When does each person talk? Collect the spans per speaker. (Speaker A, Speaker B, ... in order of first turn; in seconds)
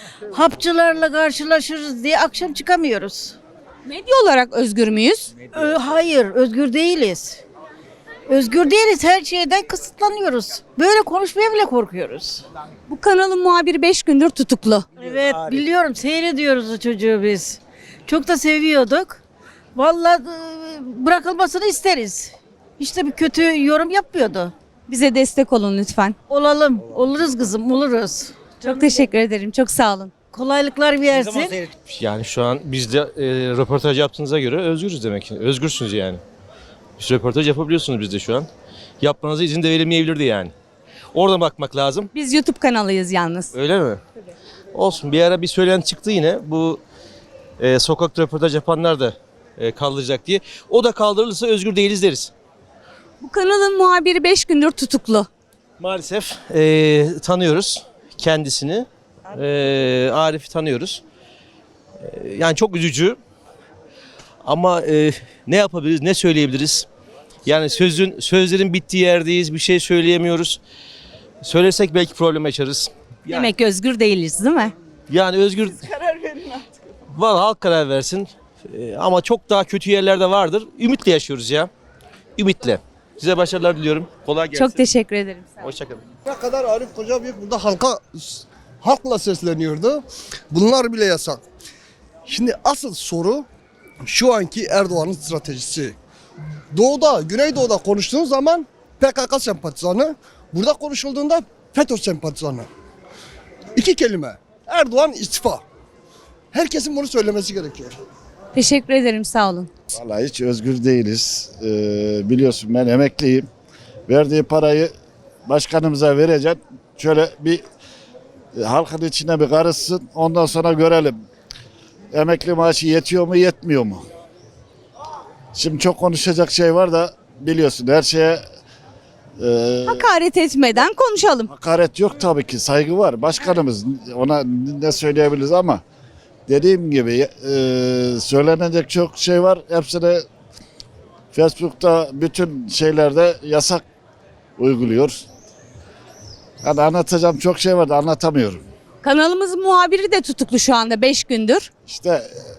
Speaker A: 0.3-3.4, 5.5-7.4, 8.3-12.4, 15.0-19.2, 19.7-24.5, 26.3-29.0, 30.3-31.6
Speaker B: 3.9-5.3, 12.9-14.8, 24.9-26.1, 28.6-30.1, 42.1-43.5, 53.2-55.3, 73.3-74.7, 84.5-85.6, 108.5-109.7, 129.8-131.5, 149.0-151.7
Speaker C: 31.9-36.2, 37.0-38.5, 39.0-40.5, 41.1-42.1, 43.5-44.0, 44.7-46.8, 47.6-52.3, 55.8-61.0, 62.0-63.2, 64.4-66.9, 67.5-70.6, 71.4-72.9, 75.1-76.5, 77.1-81.7, 82.4-84.8, 85.6-86.0
Speaker D: 86.3-91.4, 92.2-93.5, 94.0-96.0, 96.7-102.7, 103.8-105.6, 106.5-107.9
Speaker E: 109.9-113.5, 114.1-114.9, 115.5-117.6, 118.5-121.2, 122.1-124.0, 125.5-128.4, 129.4-130.1, 131.5-135.8, 136.5-140.2, 141.3-143.8, 144.6-145.2, 146.6-148.6, 151.9-152.3